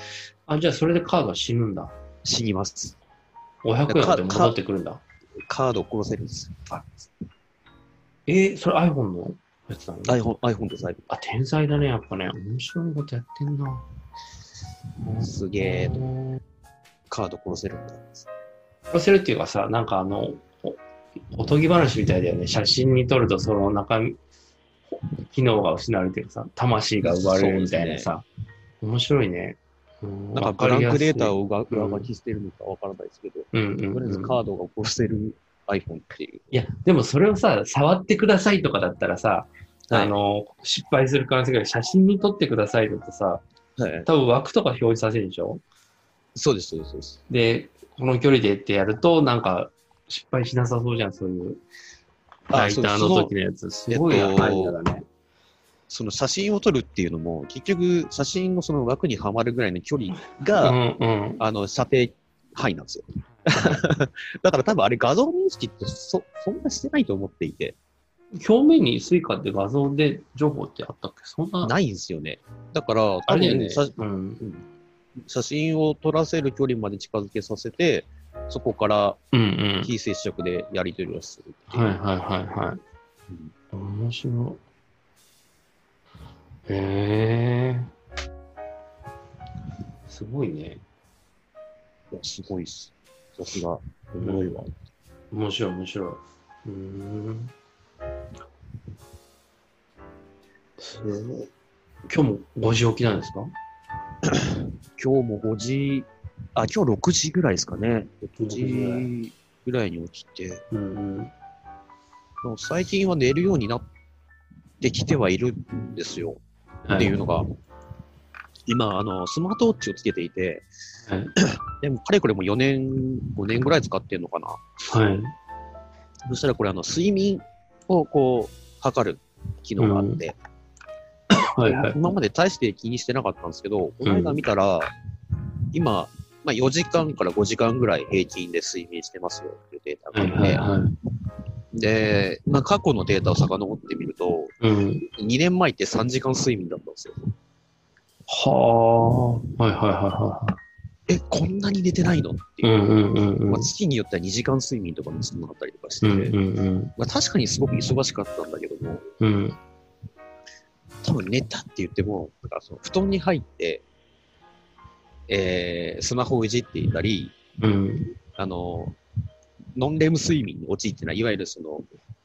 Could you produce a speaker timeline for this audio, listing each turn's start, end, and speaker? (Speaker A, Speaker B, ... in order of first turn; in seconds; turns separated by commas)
Speaker A: 0.5-1.9, Speaker B: 2.2-3.0, Speaker A: 3.6-5.0, Speaker B: 3.9-4.6, Speaker B: 5.5-7.1, Speaker A: 8.3-10.2, Speaker B: 10.1-11.1, Speaker A: 11.1-13.9, Speaker A: 15.0-16.3, Speaker B: 15.2-16.1, Speaker B: 17.1-18.3, Speaker A: 18.9-20.8, Speaker A: 21.3-24.2, Speaker A: 24.9-28.2, Speaker B: 27.0-28.1, Speaker A: 28.8-32.1, Speaker B: 30.4-36.5, Speaker A: 33.5-34.4, Speaker A: 36.5-43.4, Speaker B: 39.9-40.1, Speaker B: 43.8-44.1, Speaker A: 44.1-45.6, Speaker B: 46.4-47.2, Speaker A: 47.3-51.6, Speaker B: 52.5-53.3, Speaker A: 52.5-55.1, Speaker B: 53.9-54.8, Speaker B: 55.9-60.8, Speaker A: 60.4-61.4, Speaker B: 61.4-67.8, Speaker A: 63.3-63.8, Speaker A: 68.3-71.7, Speaker B: 71.6-74.7, Speaker A: 73.3-74.4, Speaker B: 75.2-79.2, Speaker A: 79.3-79.9, Speaker B: 79.8-82.0, Speaker A: 81.7-82.8, Speaker A: 83.7-84.6, Speaker A: 86.7-87.9, Speaker A: 90.1-90.8, Speaker B: 92.1-94.7, Speaker A: 94.2-94.6, Speaker A: 95.3-97.5, Speaker A: 100.8-101.5, Speaker A: 102.1-103.5, Speaker B: 104.3-110.6, Speaker A: 108.4-109.1, Speaker A: 110.7-111.3, Speaker B: 112.4-113.8, Speaker B: 114.8-116.4, Speaker A: 116.9-117.2, Speaker B: 116.9-117.5, Speaker B: 118.7-120.7, Speaker A: 121.1-121.3, Speaker B: 121.4-124.8, Speaker A: 124.9-125.3, Speaker B: 126.3-130.4, Speaker A: 129.8-130.2, Speaker A: 131.3-132.0, Speaker B: 131.6-134.9, Speaker A: 134.0-134.4, Speaker B: 135.7-140.7, Speaker A: 140.1-140.9, Speaker B: 141.7-144.5, Speaker A: 144.6-145.1, Speaker B: 145.1-147.2, Speaker A: 148.3-150.6, Speaker B: 151.1-152.8, Speaker A: 152.6-153.7, Speaker B: 153.5-156.4, Speaker A: 156.0-156.9, Speaker B: 157.0-159.1, Speaker A: 159.2-159.6, Speaker B: 161.0-163.8, Speaker B: 165.3-167.3, Speaker A: 167.6-168.2, Speaker B: 168.4-169.0, Speaker B: 169.8-171.9